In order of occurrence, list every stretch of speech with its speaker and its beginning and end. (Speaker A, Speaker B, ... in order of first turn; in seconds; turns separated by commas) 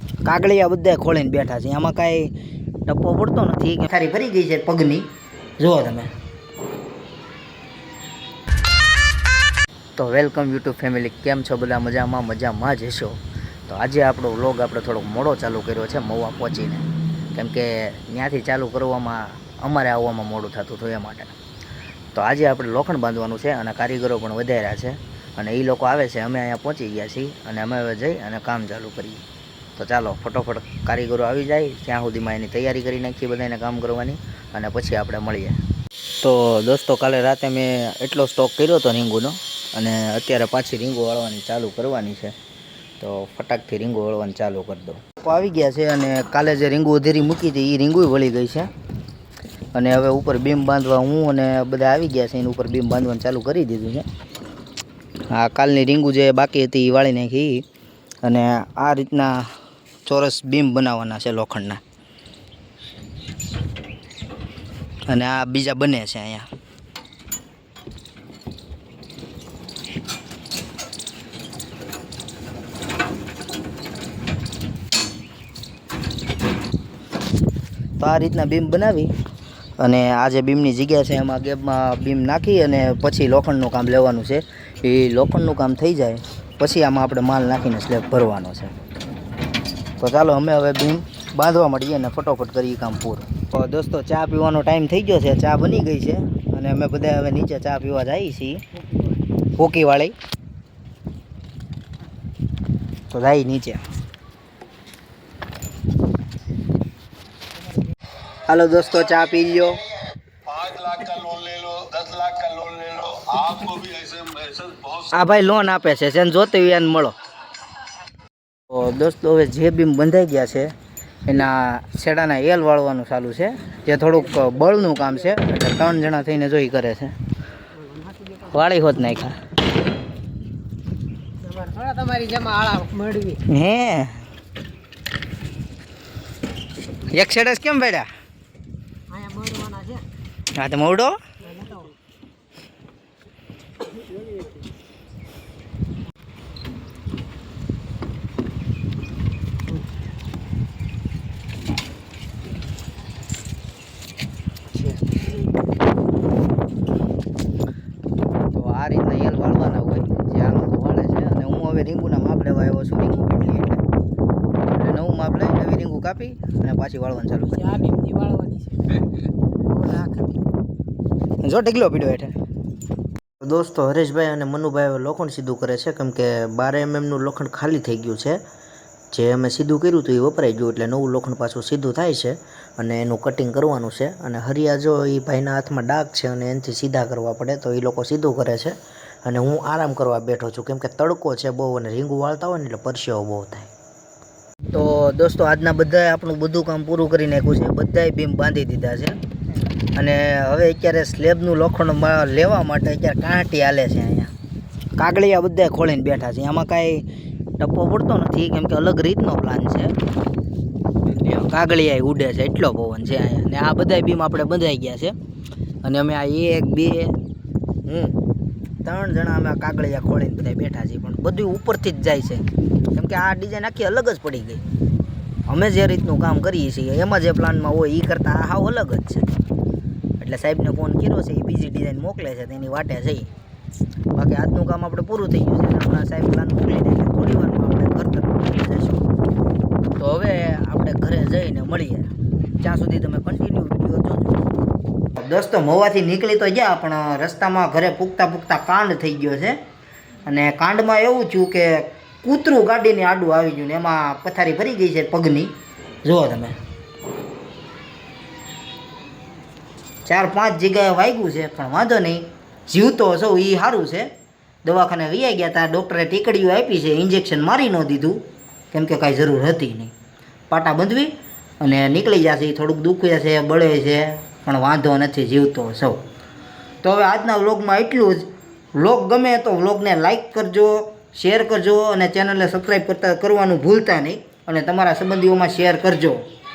Speaker A: 0.2-2.3, Speaker A: 2.9-5.1, Speaker A: 5.6-6.1, Speaker A: 10.0-21.4, Speaker A: 22.1-29.2, Speaker A: 29.8-35.6, Speaker A: 36.2-42.3, Speaker A: 43.0-48.7, Speaker A: 49.7-54.1, Speaker A: 55.3-57.6, Speaker A: 58.2-59.5, Speaker A: 60.0-61.8, Speaker A: 65.1-66.5, Speaker A: 78.0-79.1, Speaker A: 79.8-88.8, Speaker A: 90.0-98.6, Speaker A: 99.6-100.2, Speaker A: 103.1-103.8, Speaker A: 108.5-109.8, Speaker B: 110.5-115.0, Speaker A: 115.0-117.1, Speaker A: 118.7-120.7, Speaker A: 121.3-127.1, Speaker C: 127.8-128.6, Speaker A: 128.5-129.4, Speaker C: 131.4-133.4, Speaker A: 133.5-134.2, Speaker A: 137.1-138.1, Speaker C: 139.1-140.0, Speaker A: 140.6-141.2, Speaker C: 141.4-141.9, Speaker A: 158.5-163.8, Speaker A: 164.7-167.8, Speaker C: 167.5-169.1, Speaker C: 169.6-170.5, Speaker A: 171.4-172.3, Speaker A: 173.4-178.4, Speaker A: 179.1-193.7, Speaker A: 194.7-199.2, Speaker A: 200.0-204.3, Speaker A: 205.0-207.1, Speaker A: 207.6-209.9, Speaker A: 211.1-215.2, Speaker A: 215.8-217.2, Speaker A: 217.9-218.2, Speaker A: 218.8-224.6, Speaker A: 225.5-229.4, Speaker A: 230.2-233.3, Speaker A: 234.1-239.1, Speaker A: 240.0-244.5, Speaker A: 245.2-249.6, Speaker A: 250.2-256.6, Speaker A: 260.1-264.1, Speaker A: 264.6-269.9, Speaker A: 270.5-276.0, Speaker A: 276.8-286.2